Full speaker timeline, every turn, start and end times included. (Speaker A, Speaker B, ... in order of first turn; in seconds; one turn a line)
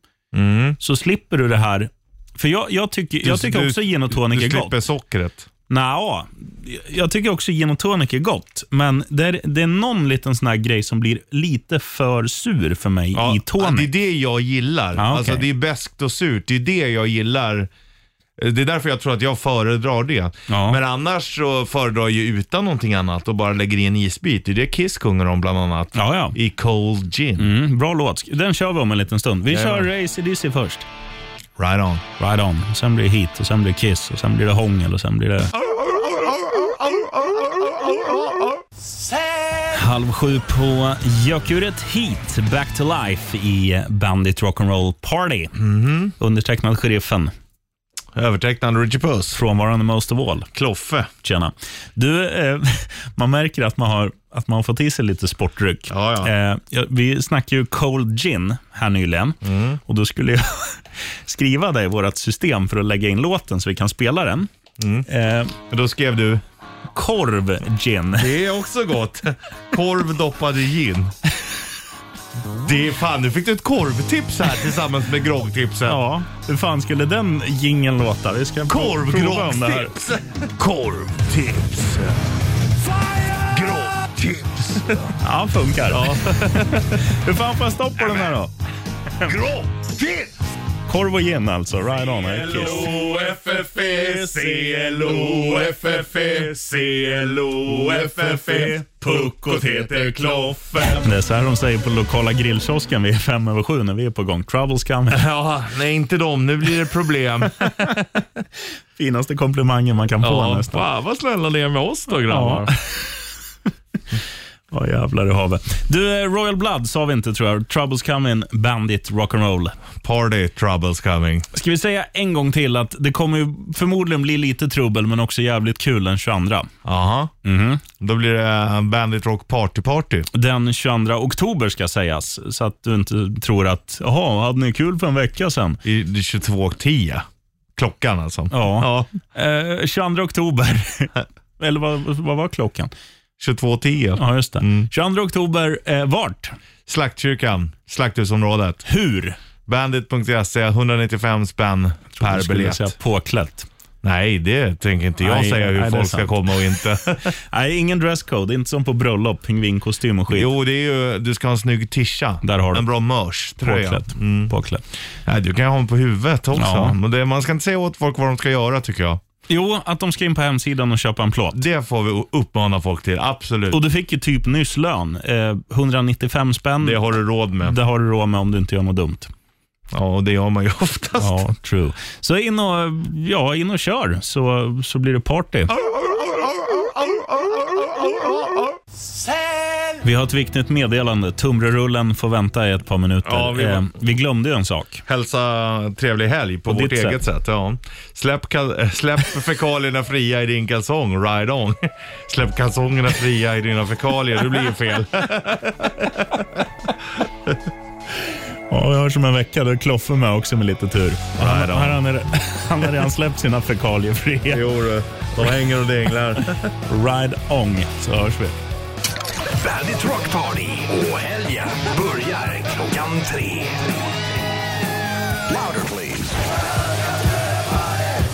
Speaker A: 0.3-0.8
Speaker B: 0.8-4.8
Speaker A: 3.2-5.5
Speaker B: 5.7-13.9
Speaker A: 13.1-17.7
Speaker B: 14.9-15.4
Speaker A: 18.4-27.5
Speaker B: 20.5-20.8
Speaker B: 25.9-26.4
Speaker B: 27.4-30.9
Speaker A: 29.5-29.9
Speaker A: 31.6-32.0
Speaker B: 32.2-35.5
Speaker A: 35.6-38.6
Speaker B: 39.7-45.5
Speaker A: 45.5-46.1
Speaker B: 46.2-47.3
Speaker A: 48.1-49.4
Speaker B: 49.3-50.5
Speaker A: 50.5-51.1
Speaker B: 51.2-64.5
Speaker A: 55.9-56.3
Speaker A: 59.4-59.8
Speaker A: 64.8-65.0
Speaker B: 65.0-65.5
Speaker A: 65.7-66.4
Speaker B: 66.9-68.3
Speaker A: 68.2-71.1
Speaker A: 72.6-76.0
Speaker B: 75.8-79.9
Speaker A: 78.7-82.2
Speaker A: 82.9-85.2
Speaker B: 85.2-88.5
Speaker A: 85.9-87.0
Speaker A: 88.0-88.3
Speaker A: 89.2-90.3
Speaker B: 90.9-93.0
Speaker A: 92.0-101.1
Speaker B: 94.0-96.0
Speaker B: 98.0-99.6
Speaker B: 101.0-105.2
Speaker A: 105.1-108.4
Speaker B: 109.0-110.8
Speaker A: 110.2-112.7
Speaker B: 112.3-113.2
Speaker B: 114.7-119.7
Speaker A: 120.0-121.5
Speaker B: 121.5-126.7
Speaker A: 126.8-127.3
Speaker B: 127.4-127.8
Speaker A: 128.0-130.3
Speaker B: 130.3-135.8
Speaker A: 135.8-139.1
Speaker B: 138.5-142.9
Speaker A: 143.4-144.9
Speaker B: 144.2-146.5
Speaker A: 146.8-148.8
Speaker B: 148.8-149.4
Speaker A: 149.7-152.9
Speaker B: 152.2-153.7
Speaker A: 154.0-157.3
Speaker B: 155.2-160.5
Speaker A: 160.3-164.5
Speaker B: 162.4-162.8
Speaker B: 163.6-164.8
Speaker A: 165.2-169.2
Speaker B: 166.5-166.9
Speaker B: 169.5-171.6
Speaker A: 171.5-173.8
Speaker B: 173.7-177.0
Speaker A: 176.8-177.8
Speaker B: 177.6-179.3
Speaker A: 179.9-181.5
Speaker B: 181.2-185.7
Speaker A: 185.7-188.8
Speaker B: 190.0-195.0
Speaker A: 193.2-193.9
Speaker A: 195.1-206.9
Speaker B: 196.7-197.2
Speaker B: 208.7-214.7
Speaker A: 211.4-212.0
Speaker A: 214.5-216.7
Speaker B: 216.8-218.6
Speaker C: 219.6-223.9
Speaker C: 225.5-226.4